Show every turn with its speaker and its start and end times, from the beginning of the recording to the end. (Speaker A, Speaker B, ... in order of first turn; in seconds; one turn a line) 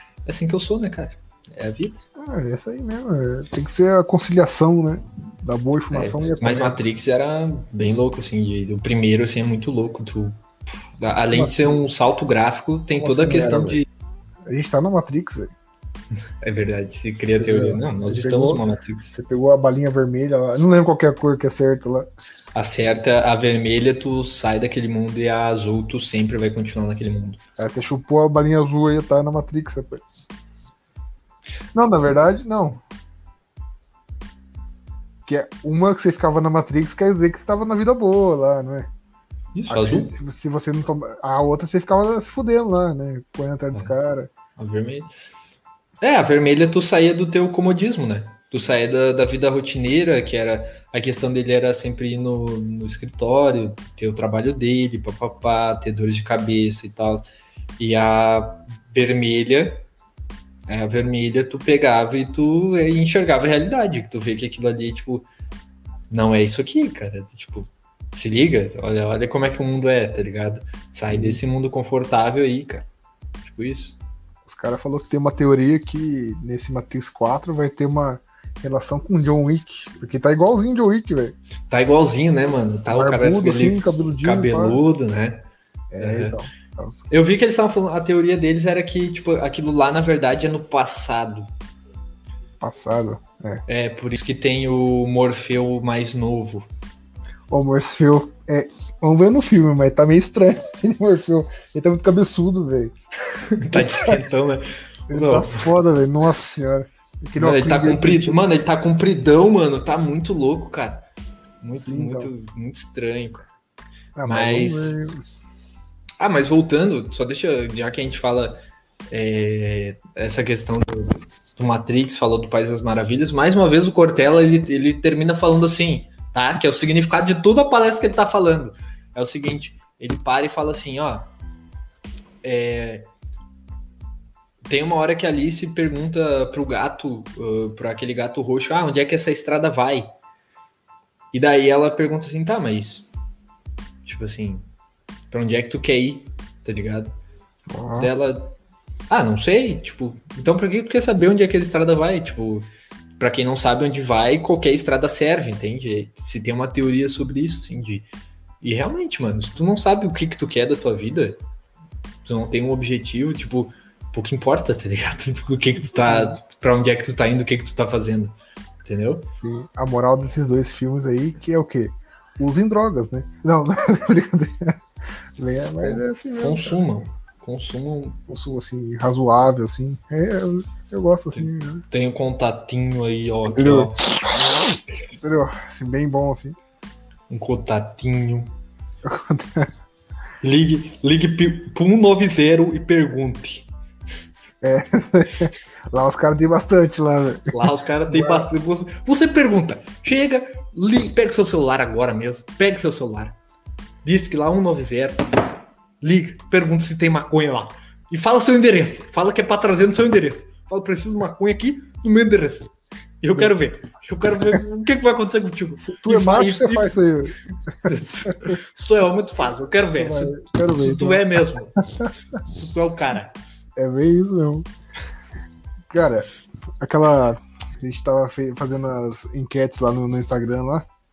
Speaker A: 0.2-2.0
Speaker B: 2.2-6.8
Speaker A: 5.9-13.9
Speaker B: 11.3-11.8
Speaker B: 12.9-13.8
Speaker B: 14.5-15.5
Speaker A: 16.4-19.2
Speaker B: 17.4-22.1
Speaker A: 22.6-27.4
Speaker B: 27.6-30.0
Speaker B: 31.7-32.8
Speaker B: 35.3-38.9
Speaker A: 39.5-40.1
Speaker B: 39.7-44.3
Speaker A: 44.6-45.1
Speaker A: 46.0-57.2
Speaker A: 57.8-59.9
Speaker A: 60.7-65.3
Speaker A: 66.1-72.9
Speaker B: 71.1-71.4
Speaker A: 73.4-74.0
Speaker B: 74.5-81.4
Speaker A: 81.7-85.5
Speaker B: 82.9-84.8
Speaker B: 85.9-87.1
Speaker A: 86.0-86.4
Speaker A: 87.1-91.5
Speaker B: 92.6-93.6
Speaker A: 93.7-96.7
Speaker B: 97.5-103.0
Speaker A: 103.3-105.7
Speaker B: 103.7-104.2
Speaker B: 105.1-108.4
Speaker A: 107.4-111.0
Speaker A: 111.6-113.5
Speaker B: 111.9-112.3
Speaker B: 114.2-115.2
Speaker A: 114.3-115.0
Speaker A: 116.2-118.5
Speaker A: 119.1-131.3
Speaker A: 132.4-133.1
Speaker A: 134.7-140.1
Speaker A: 141.3-143.1
Speaker A: 144.1-144.7
Speaker A: 145.3-147.1
Speaker B: 147.7-148.1
Speaker A: 148.0-148.5
Speaker A: 149.1-152.7
Speaker A: 153.2-158.1
Speaker A: 158.6-161.4
Speaker A: 162.2-169.3
Speaker B: 165.9-166.4
Speaker B: 169.4-174.8
Speaker B: 175.4-176.8
Speaker A: 175.8-178.3
Speaker B: 178.3-181.8
Speaker A: 181.3-184.7
Speaker B: 183.6-186.6
Speaker A: 187.3-188.5
Speaker B: 189.0-189.7
Speaker A: 190.4-193.7
Speaker B: 194.6-198.5
Speaker A: 197.5-203.4
Speaker A: 204.1-205.5
Speaker A: 206.0-217.0
Speaker B: 215.8-218.6
Speaker A: 217.8-221.8
Speaker B: 220.0-221.2
Speaker A: 222.4-223.3
Speaker B: 223.8-224.7
Speaker B: 225.9-226.3
Speaker B: 226.8-230.8